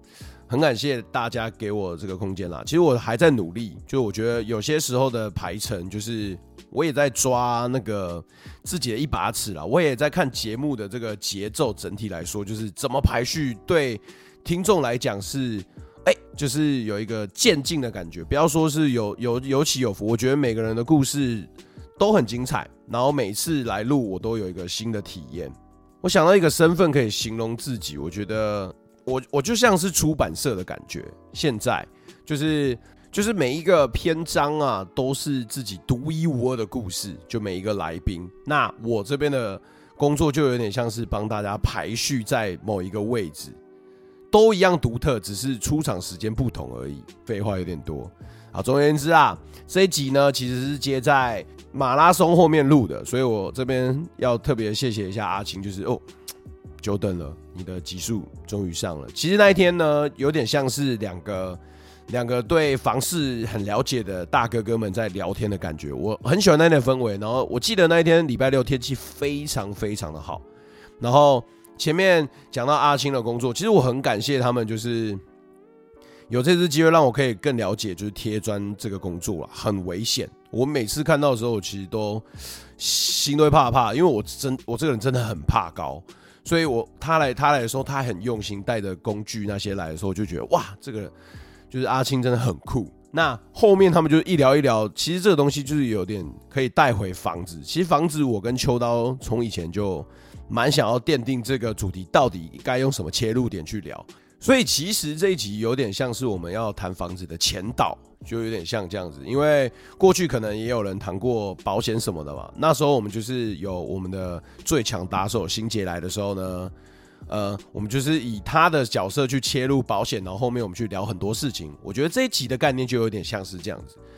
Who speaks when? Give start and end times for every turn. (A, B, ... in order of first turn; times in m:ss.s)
0:00.5-0:43.6 A
0:44.3-0:56.0 A
0:56.8-1:10.4 A
1:11.0-1:15.2 A
1:16.3-1:31.1 A
1:31.7-1:56.7 A
1:57.3-2:04.0 A